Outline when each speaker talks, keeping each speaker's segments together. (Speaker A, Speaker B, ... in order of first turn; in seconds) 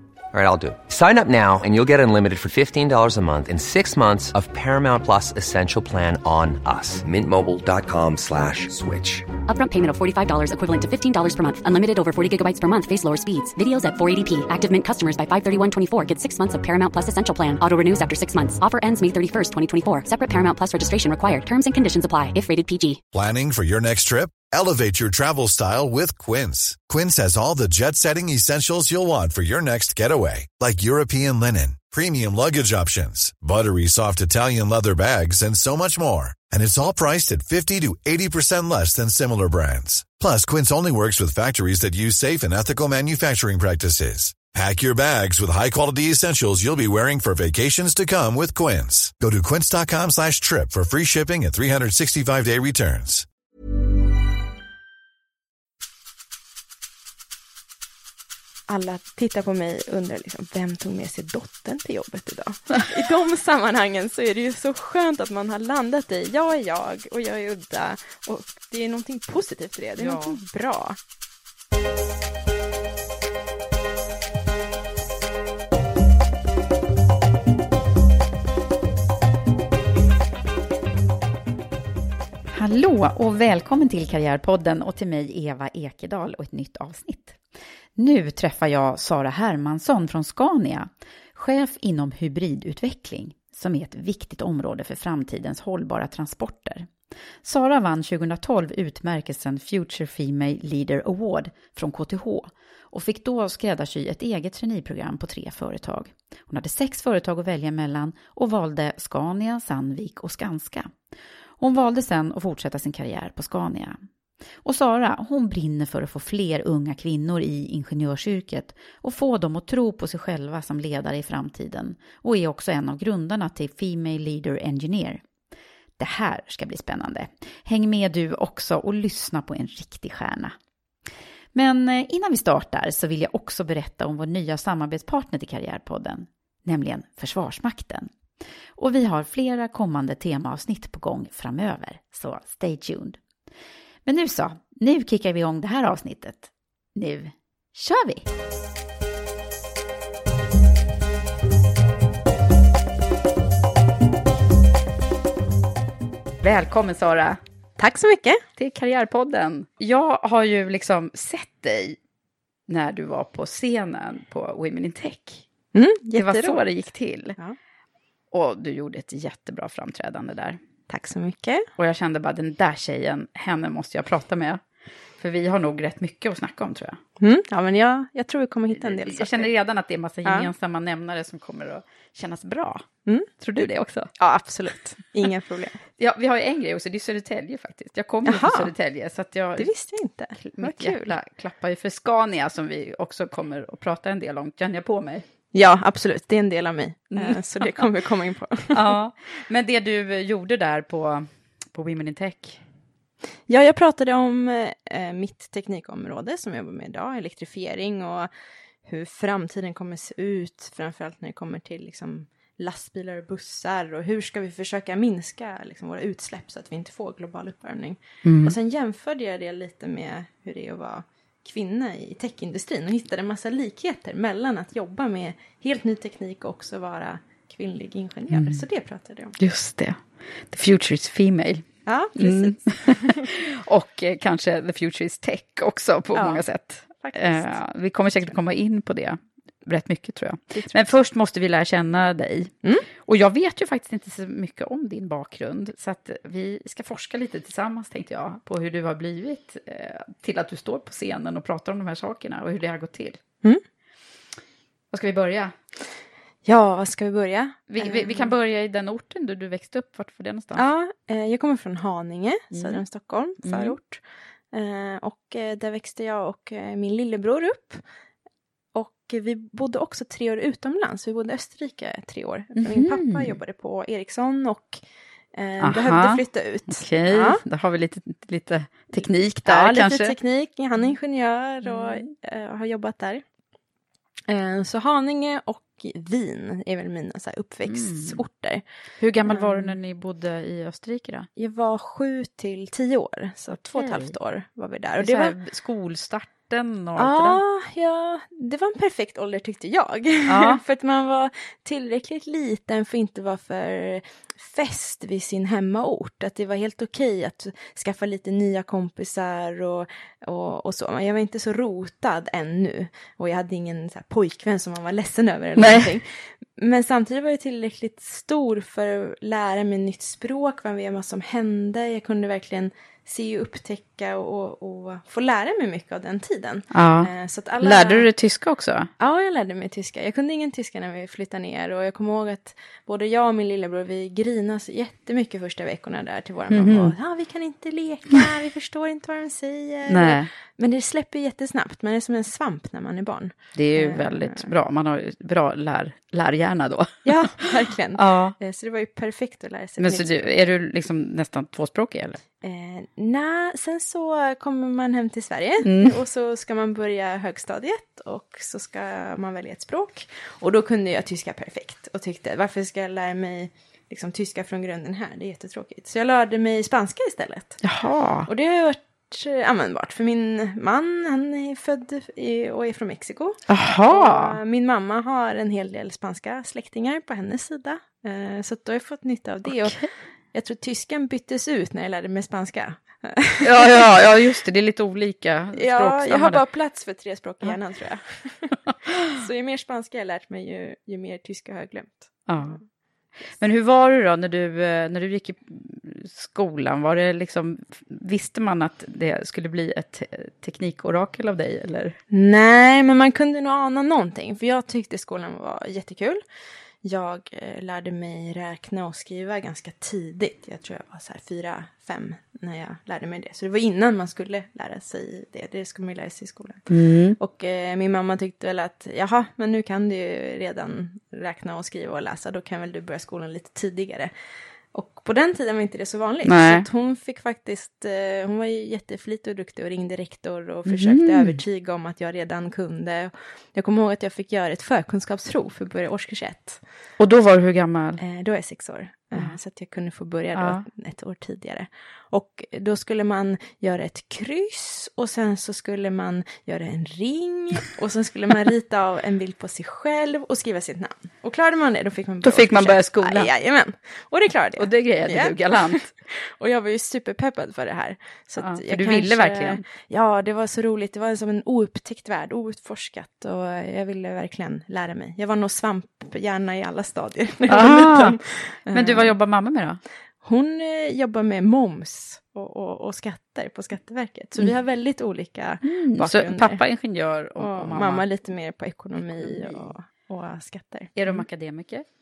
Speaker A: 0.3-9.3
Speaker B: 9.5-23.0
Speaker C: 23.1-53.2
Speaker D: 58.7-71.0, 157.8-158.4, 165.7-166.6, 170.9-171.7, 177.2-179.5, 184.2-185.8, 188.2-188.7, 189.6-191.1, 195.5-198.9, 203.5-208.3, 208.8-229.3, 231.8-233.2, 236.1-237.6, 240.5-240.8, 256.4-258.3, 260.5-264.0, 264.5-267.8, 268.7-274.8, 275.3-277.4, 279.0-283.2, 284.3-288.6, 289.3-289.7, 291.4-295.3, 297.0-328.1, 329.0-344.5, 347.0-350.1, 352.4-367.6, 368.2-379.8, 380.3-383.9, 385.5-392.6, 402.1-406.2, 406.8-424.1, 424.7-436.6, 438.0-469.1, 470.2-476.6, 477.4-481.2
Speaker E: 70.0-70.4, 82.5-87.4, 88.0-96.9, 97.4-110.9, 111.6-114.0, 114.6-125.2, 126.0-130.5, 131.5-138.1, 138.8-143.2, 144.1-148.2, 156.4-157.4, 158.6-162.0, 162.7-165.4, 166.2-167.4, 168.3-170.6, 171.8-174.6, 175.2-177.0, 178.8-182.9, 183.4-184.1, 186.0-189.7, 190.4-195.2, 197.1-197.9, 198.7-202.6, 218.2-218.5, 228.3-228.6, 229.4-242.5, 243.0-253.2, 254.9-255.5, 257.7-260.6, 262.5-262.8, 263.4-263.8, 272.6-273.3, 275.6-280.1, 281.6-282.1, 287.7-288.2, 289.0-291.3, 293.5-294.1, 295.0-297.4, 300.3-300.6, 315.6-315.9, 326.7-327.1, 327.6-328.9, 336.5-336.9, 339.9-340.3, 343.5-348.4, 349.8-352.2, 355.6-356.0, 367.6-368.3, 373.5-374.4, 379.4-379.9, 383.4-386.4, 392.3-392.6, 393.4-402.0, 416.7-417.2, 426.2-426.7, 430.6-431.4, 437.0-438.0, 440.3-440.6, 452.2-453.3, 454.6-455.9, 458.4-459.6, 467.5-468.2, 468.7-469.8, 475.6-478.1, 479.0-479.7, 480.9-481.9